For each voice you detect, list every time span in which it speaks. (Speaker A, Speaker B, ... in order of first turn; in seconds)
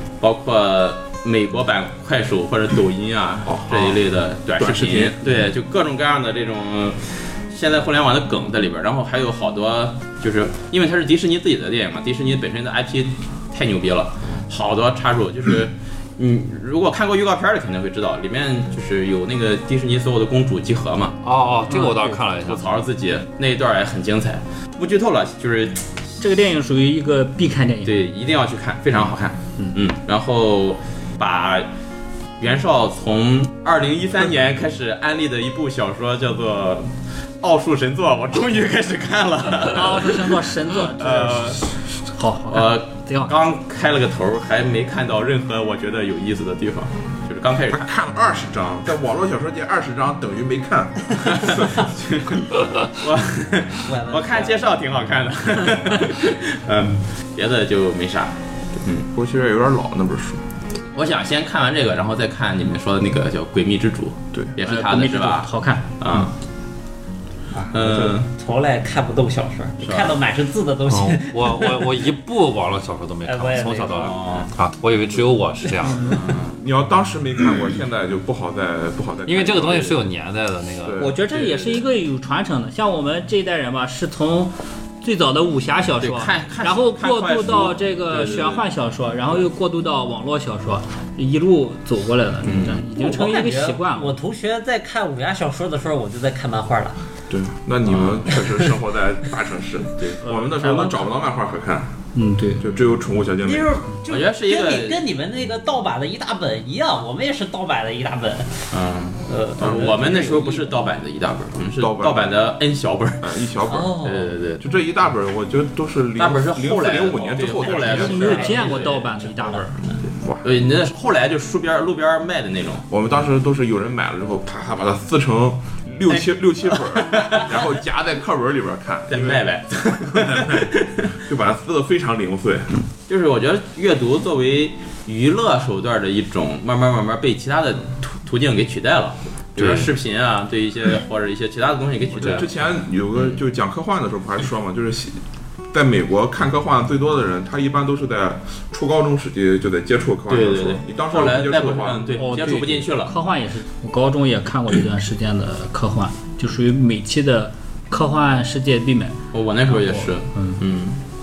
Speaker A: 0.2-21.2, 22.4-25.9, 27.9-31.7, 32.4-41.6, 42.5-47.9, 51.2-59.1, 60.9-66.3, 67.7-68.3, 69.8-70.2, 73.9-74.5, 76.1-76.5, 81.3-81.8, 86.0-88.6, 92.4-92.8, 97.8-98.3, 104.1-105.0, 108.7-113.3, 114.0-114.6, 116.2-119.3, 120.4-122.8, 127.0-127.5, 129.1-131.2, 133.1-142.6, 150.3-153.1, 159.3-161.0
Speaker B: 3.5-4.0, 4.6-5.2, 47.7-51.9, 59.1-60.4, 67.7-68.2, 76.3-80.0, 80.8-81.2, 97.3-101.9, 102.6-103.7, 109.6-109.9, 111.8-112.4, 113.2-114.0, 114.6-118.3, 120.1-120.5, 122.9-129.5, 130.1-130.7, 131.2-132.7, 142.1-145.2, 145.7-152.2
Speaker C: 21.2-22.6, 70.9-76.1, 79.2-81.1, 139.6-139.9
Speaker D: 21.7-22.1, 26.2-28.0, 39.6-41.6, 42.1-43.3, 64.6-65.8, 81.0-94.2, 100.5-100.9, 102.1-102.6, 117.9-119.7, 152.2-159.2, 159.7-160.6
Speaker E: 53.8-54.6, 68.2-72.0, 73.2-74.1, 92.9-97.0, 103.4-108.6, 109.3-110.7, 113.7-114.3, 117.5-119.6, 126.8-127.4